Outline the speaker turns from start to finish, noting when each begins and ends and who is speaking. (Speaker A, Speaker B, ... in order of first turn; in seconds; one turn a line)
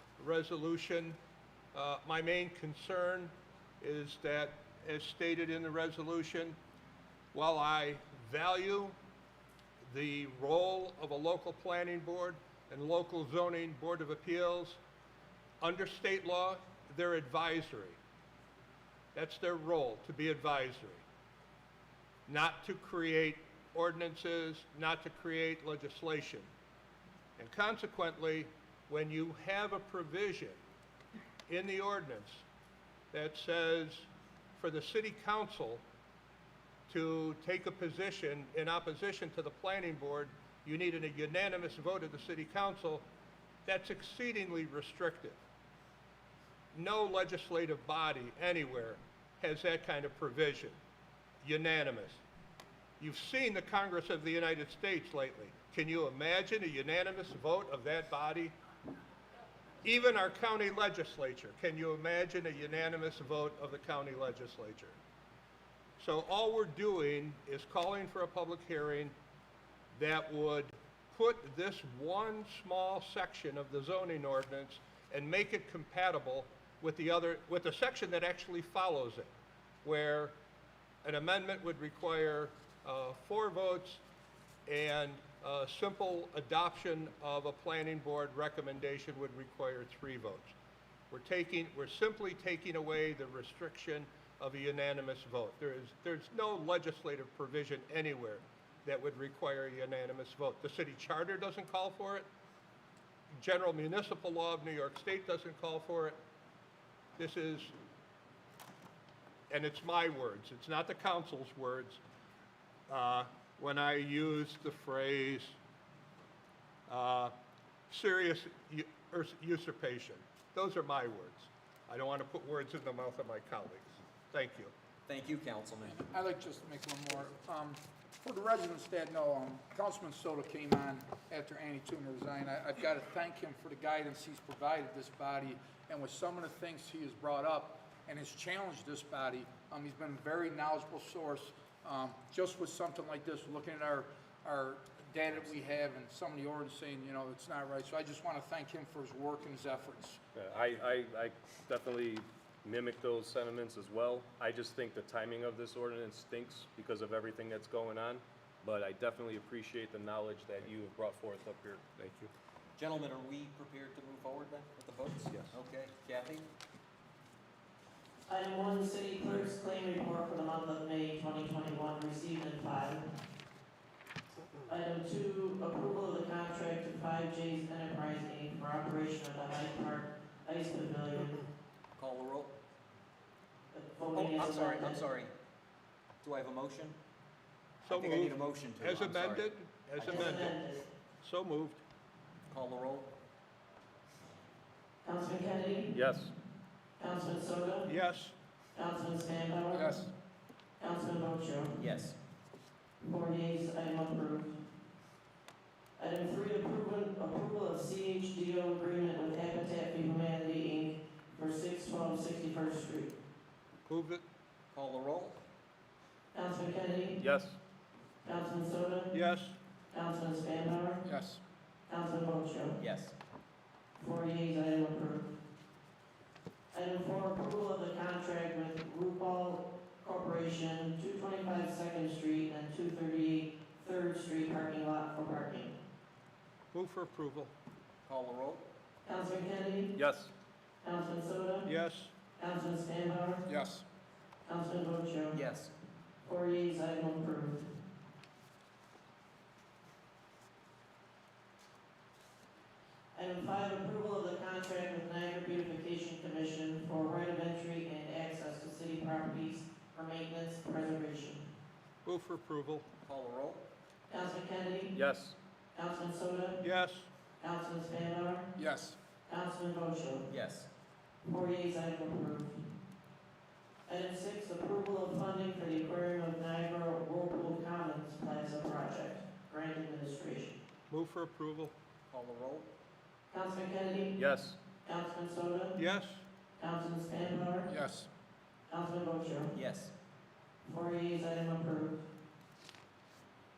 Speaker A: 0.2-1.2
Speaker A: 1.7-6.5
Speaker A: 7.3-8.9
Speaker A: 9.8-14.8
Speaker A: 15.6-18.0
Speaker A: 19.1-21.0
Speaker A: 22.3-26.5
Speaker A: 27.4-30.6
Speaker A: 31.5-32.4
Speaker A: 33.1-35.8
Speaker A: 36.9-43.0
Speaker A: 43.6-45.4
Speaker A: 46.7-50.8
Speaker A: 51.4-52.2
Speaker A: 53.0-58.5
Speaker A: 59.8-65.0
Speaker A: 66.0-69.1
Speaker A: 69.9-79.3
Speaker A: 79.8-80.3
Speaker A: 81.0-84.0
Speaker A: 84.7-90.5
Speaker A: 91.1-102.3
Speaker A: 103.4-106.2
Speaker A: 107.2-107.7
Speaker A: 109.5-112.0
Speaker A: 112.9-115.5
Speaker A: 116.9-117.3
Speaker A: 117.9-124.7
Speaker B: 125.1-125.9
Speaker C: 125.8-150.2
Speaker D: 150.3-162.0
Speaker B: 162.8-166.5
Speaker E: 168.3-173.1
Speaker E: 174.7-181.4
Speaker B: 181.9-182.5
Speaker E: 183.7-185.1
Speaker B: 184.1-185.3
Speaker B: 186.2-187.0
Speaker B: 187.8-190.5
Speaker A: 187.9-190.4
Speaker E: 190.0-190.8
Speaker A: 191.2-191.8
Speaker B: 192.5-193.1
Speaker E: 195.0-195.9
Speaker D: 195.9-196.3
Speaker E: 197.0-197.9
Speaker A: 197.9-198.3
Speaker E: 198.7-199.9
Speaker C: 199.7-200.1
Speaker E: 200.8-201.8
Speaker B: 201.8-202.1
Speaker E: 203.0-204.6
Speaker E: 206.0-213.1
Speaker A: 213.8-214.2
Speaker B: 214.7-215.4
Speaker E: 216.3-217.2
Speaker D: 217.2-217.6
Speaker E: 218.2-219.1
Speaker A: 219.1-219.6
Speaker E: 219.9-221.0
Speaker C: 221.0-221.4
Speaker E: 221.9-222.8
Speaker B: 222.8-223.1
Speaker E: 224.0-225.4
Speaker E: 226.7-235.8
Speaker A: 236.7-237.5
Speaker B: 238.0-238.6
Speaker E: 239.1-239.9
Speaker D: 239.9-240.3
Speaker E: 240.8-241.7
Speaker A: 241.7-242.1
Speaker E: 242.4-243.4
Speaker C: 243.5-243.8
Speaker E: 244.4-245.4
Speaker B: 245.3-245.7
Speaker E: 246.2-247.7
Speaker E: 253.1-261.4
Speaker A: 262.0-262.9
Speaker B: 263.0-263.6
Speaker E: 264.1-264.9
Speaker D: 264.9-265.3
Speaker E: 265.7-266.6
Speaker A: 266.6-267.1
Speaker E: 267.4-268.4
Speaker C: 268.6-269.0
Speaker E: 269.2-270.2
Speaker B: 270.3-270.7
Speaker E: 271.2-272.6
Speaker E: 273.9-280.5
Speaker A: 280.9-281.8
Speaker B: 282.1-282.7
Speaker E: 283.3-284.2
Speaker D: 284.2-284.6
Speaker E: 284.8-285.8
Speaker A: 285.8-286.2
Speaker E: 286.6-287.7
Speaker C: 287.7-288.1
Speaker E: 288.7-289.5
Speaker B: 289.5-289.9
Speaker E: 290.6-292.0